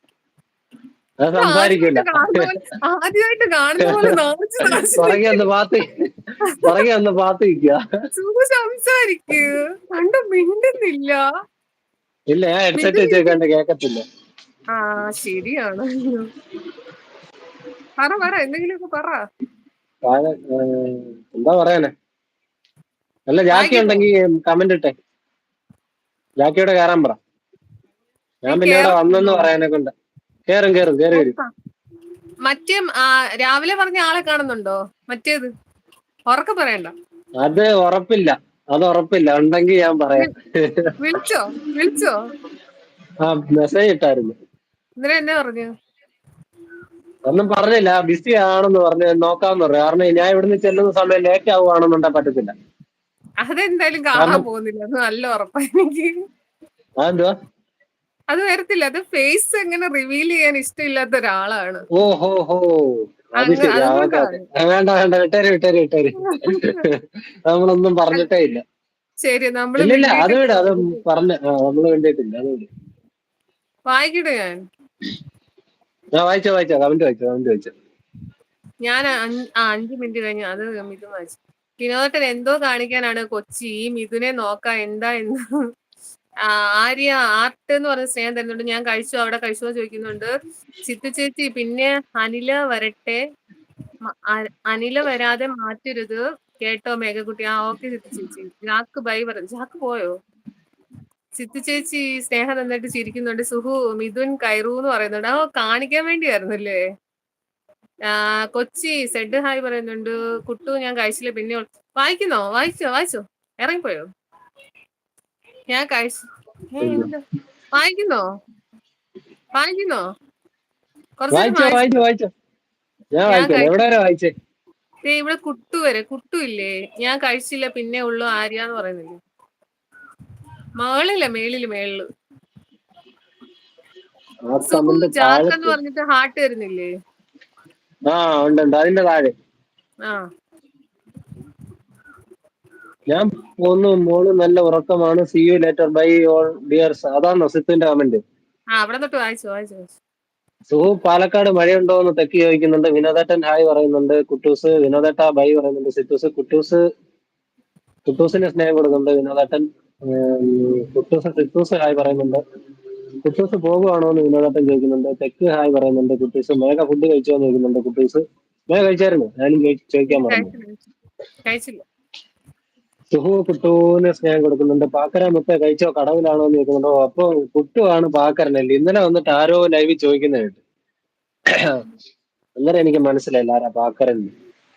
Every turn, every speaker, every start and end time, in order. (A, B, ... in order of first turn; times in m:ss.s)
0:01.2-0:02.5 A
0:01.4-0:05.4 B
0:03.9-0:04.2 A
0:04.7-0:05.9 A
0:06.5-0:06.8 B
0:06.6-0:07.8 A
0:08.2-0:11.2 B
0:12.3-0:14.0 A
0:12.8-0:13.4 B
0:14.7-0:16.2 B
0:18.0-0:19.2 B
0:20.0-0:21.9 A
0:23.3-0:24.9 A
0:23.5-0:24.1 B
0:26.4-0:27.2 A
0:28.5-0:29.9 A
0:28.5-0:29.5 B
0:30.5-0:31.3 A
0:31.1-0:31.5 B
0:32.5-0:35.5 B
0:36.3-0:36.9 B
0:37.4-0:40.9 A
0:41.0-0:42.2 B
0:43.2-0:44.3 A
0:45.0-0:45.7 B
0:47.3-0:52.5 A
0:53.4-0:56.1 B
0:54.2-0:54.5 A
0:57.0-0:57.3 A
0:58.3-1:01.8 B
1:02.0-1:02.7 A
1:03.4-1:07.0 A
1:03.4-1:04.4 B
1:06.2-1:06.8 B
1:07.5-1:08.6 A
1:09.2-1:11.0 B
1:09.8-1:12.7 A
1:13.9-1:14.6 B
1:16.2-1:17.7 A
1:18.9-1:25.4 B
1:26.5-1:30.3 B
1:30.9-1:33.2 B
1:34.1-1:40.1 B
1:41.4-1:46.8 B
1:48.1-1:54.1 B
1:55.7-1:57.2 B
1:56.8-1:57.1 A
1:57.8-1:58.2 B
1:59.6-2:00.0 B
2:01.2-2:02.0 B
2:01.3-2:02.3 A
2:03.2-2:04.3 A
2:03.3-2:03.8 B
2:05.1-2:09.2 B
2:10.8-2:12.0 B
2:14.5-2:15.8 A
2:14.6-2:16.9 B
2:18.1-2:19.3 A
2:23.1-2:28.2 A
2:28.8-2:30.0 B
2:30.7-2:36.8 A
2:38.1-2:42.4 A
2:43.2-2:50.5 A
2:50.1-2:50.8 B
2:51.5-2:51.8 B
2:53.1-3:00.6 A
3:01.5-3:01.8 A
3:02.6-3:04.3 A